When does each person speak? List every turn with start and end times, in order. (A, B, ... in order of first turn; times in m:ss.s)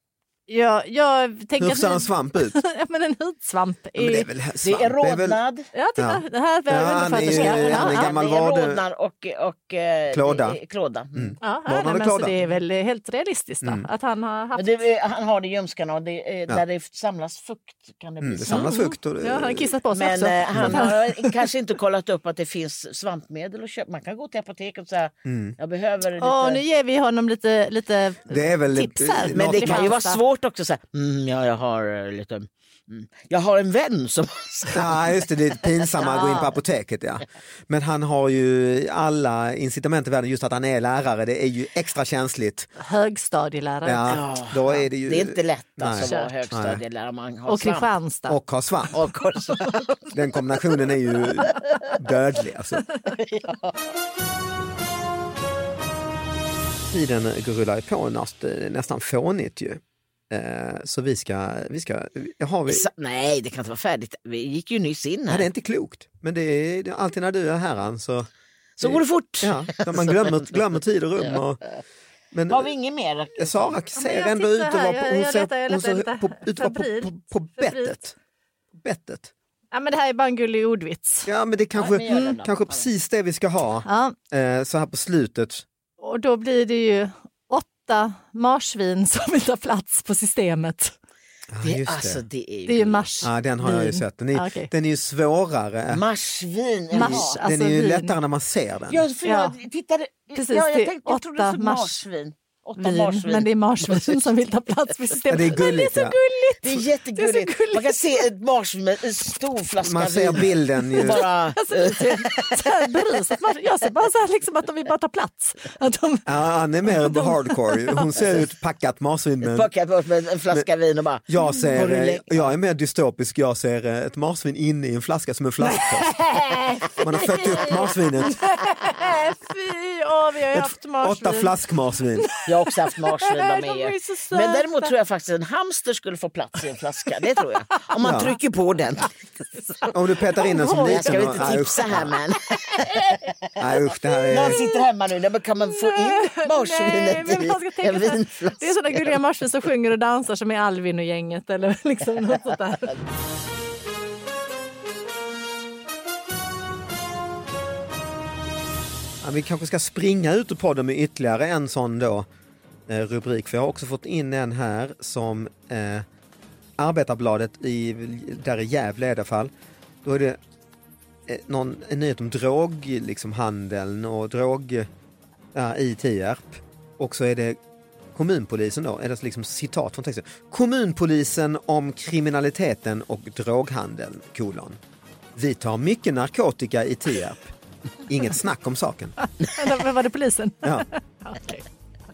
0:00.5-0:04.3 A
0:01.6-0:02.6 B
0:04.0-0:05.4 B
0:04.6-0:05.6 C
0:05.7-0:08.1 A
0:06.0-0:08.8 B
0:07.2-0:11.4 C
0:10.1-0:10.6 B
0:11.1-0:12.4 B
0:11.4-0:14.7 A
0:14.6-0:18.7 C
0:18.2-0:19.7 B
0:18.5-0:21.4 A
0:19.9-0:26.6 C
0:20.5-0:20.9 B
0:25.2-0:25.6 B
0:26.2-0:30.2 A
0:28.3-0:30.0 B
0:29.3-0:35.0 C
0:34.7-0:42.7 B
0:36.1-0:36.5 A
0:42.8-0:44.2 A
0:43.8-0:46.8 B
0:44.1-0:47.9 C
0:46.0-0:46.3 A
0:47.5-0:48.4 A
0:48.3-0:48.9 B
0:48.9-0:50.1 C
0:50.1-0:52.8 B
0:53.2-0:53.8 C
0:56.9-1:02.9 B
1:02.7-1:05.5 C
1:05.3-1:08.3 B
1:08.8-1:10.4 C
1:08.8-1:11.6 B
1:12.3-1:12.7 B
1:12.5-1:13.8 C
1:13.4-1:18.1 B
1:14.0-1:18.0 A
1:18.8-1:19.3 B
1:19.7-1:21.3 A
1:21.2-1:25.6 B
1:21.7-1:22.9 C
1:23.8-1:24.2 A
1:26.0-1:30.9 A
1:31.5-1:32.2 B
1:31.6-1:33.1 C
1:32.7-1:34.7 A
1:33.2-1:36.0 B
1:35.9-1:37.3 C
1:36.9-1:38.2 A
1:36.9-1:39.1 B
1:38.9-1:44.2 C
1:39.2-1:39.5 A
1:40.3-1:41.9 A
1:42.8-1:48.2 A
1:45.3-1:46.2 B
1:46.6-1:52.9 C
1:49.8-1:51.2 B
1:51.0-1:56.3 A
1:56.2-1:59.7 B
1:56.9-1:58.1 A
1:59.4-2:02.5 C
2:01.3-2:06.1 B
2:05.7-2:11.5 A
2:06.3-2:07.9 C
2:07.0-2:08.4 B
2:10.5-2:12.3 B
2:12.2-2:14.9 A
2:12.4-2:19.1 C
2:18.0-2:18.3 B
2:19.6-2:22.2 A
2:19.9-2:22.2 B
2:20.7-2:23.6 C
2:23.6-2:24.6 B
2:24.3-2:29.1 C
2:24.5-2:24.8 A
2:25.6-2:32.9 A
2:39.2-2:42.2 B
2:42.9-2:46.0 B
2:46.8-2:49.5 B
2:50.0-2:50.4 B
2:51.3-2:54.9 B
2:55.5-2:57.6 B
2:58.1-3:04.8 B
3:05.4-3:07.5 B
3:08.1-3:09.1 B
3:09.2-3:11.6 A